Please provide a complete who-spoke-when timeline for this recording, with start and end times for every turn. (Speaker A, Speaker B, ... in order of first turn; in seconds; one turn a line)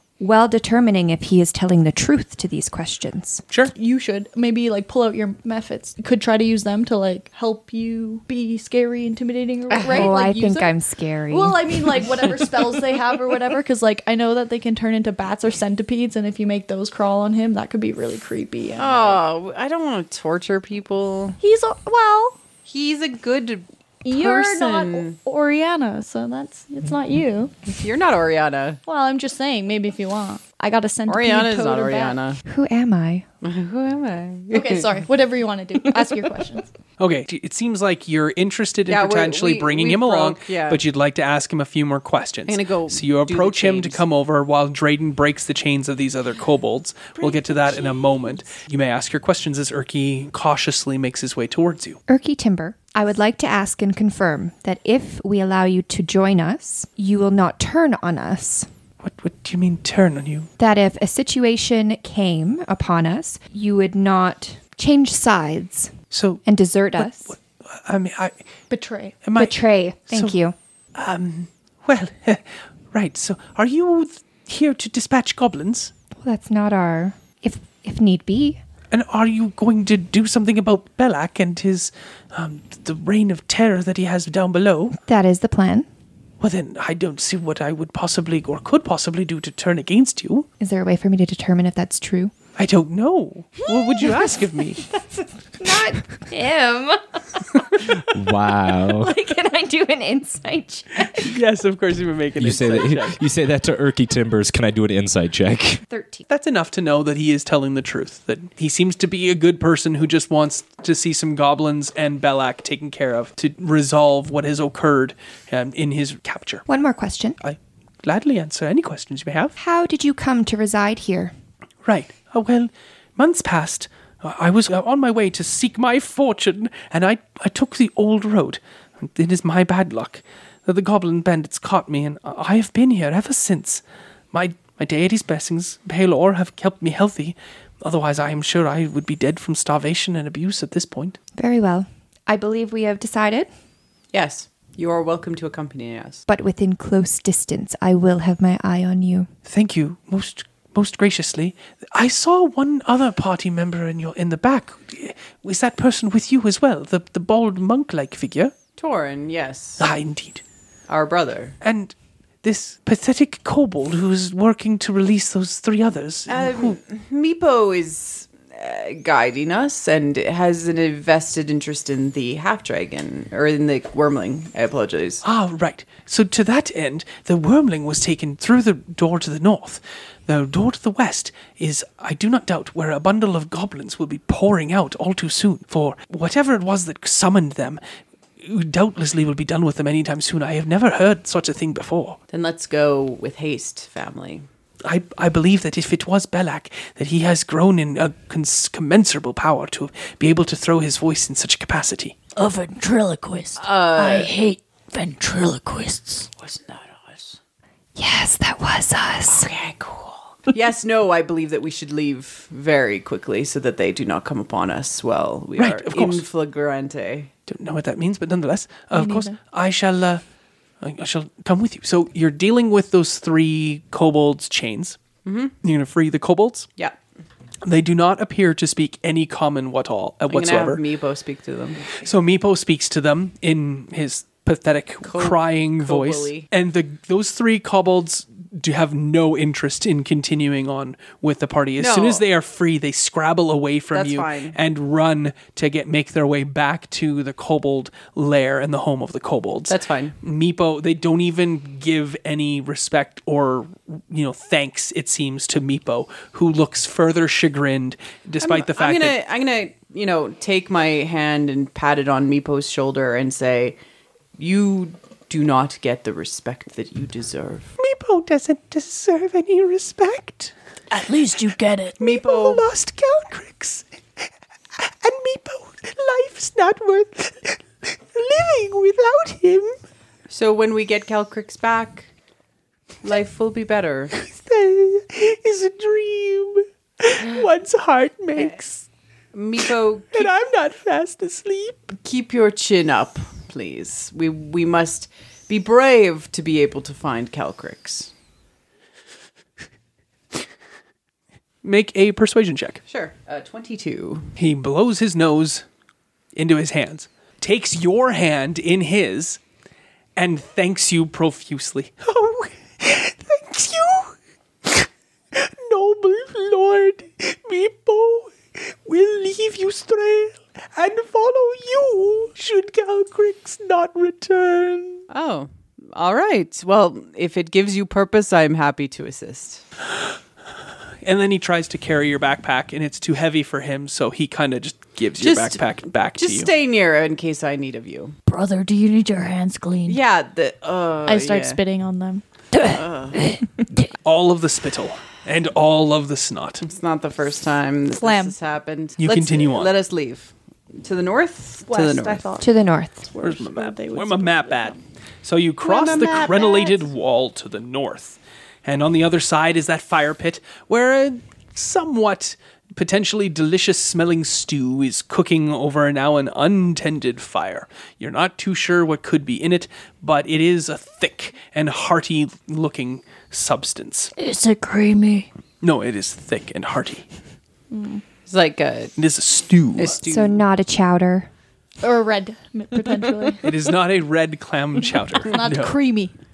Speaker A: 0.2-3.5
Speaker B: 3.8-10.7
Speaker C: 9.7-10.2
Speaker A: 9.9-11.8
Speaker B: 11.3-19.2
Speaker C: 18.8-21.4
Speaker B: 21.4-22.4
Speaker C: 22.7-25.2
Speaker B: 24.1-27.5
Speaker C: 27.7-28.8
Speaker B: 28.9-32.2
Speaker C: 31.1-32.4
Speaker A: 32.5-33.2
Speaker C: 33.4-35.0
Speaker B: 34.5-36.7
Speaker D: 37.0-52.0
Speaker C: 38.9-40.8
Speaker C: 42.5-44.0
Speaker A: 52.1-58.7
Speaker D: 59.0-60.5
Speaker A: 60.6-65.9
Speaker D: 66.1-66.4
Speaker A: 66.5-67.3
Speaker D: 67.0-68.4
Speaker B: 68.7-69.2
Speaker D: 69.2-70.4
Speaker A: 69.3-70.5
Speaker D: 71.0-75.9
Speaker A: 76.2-78.6
Speaker D: 78.9-85.0
Speaker A: 85.1-85.9
Speaker D: 86.4-90.5
Speaker A: 90.6-92.3
Speaker D: 92.6-94.9
Speaker A: 95.6-97.0
Speaker A: 97.6-98.1
Speaker E: 98.1-99.1
Speaker A: 98.8-101.4
Speaker D: 101.1-103.2
Speaker E: 102.4-105.8
Speaker A: 105.9-106.3
Speaker D: 106.3-116.7
Speaker A: 116.7-117.4
Speaker D: 117.4-119.6
Speaker A: 119.6-121.3
Speaker D: 121.8-141.2
Speaker A: 141.4-143.5
Speaker C: 144.1-146.2
Speaker A: 146.3-149.3
Speaker D: 149.5-158.5
Speaker C: 158.8-159.9
Speaker D: 159.8-160.4
Speaker C: 160.9-161.6
Speaker D: 161.6-166.8
Speaker C: 166.3-175.2
Speaker D: 175.2-187.8
Speaker D: 188.4-192.2
Speaker C: 192.3-194.4
Speaker D: 194.8-202.2
Speaker F: 202.4-206.3
Speaker C: 203.6-204.3
Speaker C: 206.4-207.4
Speaker A: 208.0-209.5
Speaker C: 209.3-217.3
Speaker D: 215.6-216.3
Speaker D: 217.5-220.2
Speaker B: 218.9-219.3
Speaker D: 220.8-225.0
Speaker C: 225.2-225.6
Speaker D: 225.6-226.7
Speaker D: 227.6-230.8
Speaker C: 230.3-231.9
Speaker D: 231.9-259.2
Speaker C: 235.0-236.5
Speaker C: 241.8-242.2
Speaker C: 243.9-244.6
Speaker C: 249.7-250.2
Speaker C: 258.4-263.8
Speaker C: 264.4-267.7
Speaker D: 267.8-270.5
Speaker F: 270.9-272.0
Speaker C: 272.0-272.7
Speaker D: 272.0-274.2
Speaker D: 274.8-279.8
Speaker C: 280.3-282.1
Speaker C: 283.0-284.1
Speaker D: 284.1-288.9
Speaker C: 289.3-290.3
Speaker D: 289.6-291.9
Speaker C: 292.0-298.1
Speaker D: 301.6-302.8
Speaker C: 302.9-304.3
Speaker D: 304.4-305.6
Speaker D: 306.4-309.4
Speaker D: 310.1-325.1
Speaker C: 325.1-329.6
Speaker D: 329.9-330.2
Speaker D: 331.0-336.5
Speaker C: 335.2-338.1
Speaker F: 338.2-340.0
Speaker C: 339.9-341.6
Speaker B: 341.1-342.2
Speaker F: 342.5-343.8
Speaker C: 342.6-343.2
Speaker D: 344.0-346.6
Speaker C: 346.6-352.2
Speaker B: 348.0-348.4
Speaker D: 349.0-349.7
Speaker B: 351.6-354.8
Speaker A: 352.4-353.1
Speaker D: 353.2-374.1
Speaker B: 355.6-356.9
Speaker F: 374.1-375.3
Speaker D: 375.6-377.1
Speaker B: 377.7-378.0
Speaker C: 378.2-378.9
Speaker D: 379.0-380.0
Speaker C: 379.8-380.5
Speaker A: 380.1-381.3
Speaker B: 381.8-383.4
Speaker D: 383.4-385.7
Speaker B: 385.2-386.1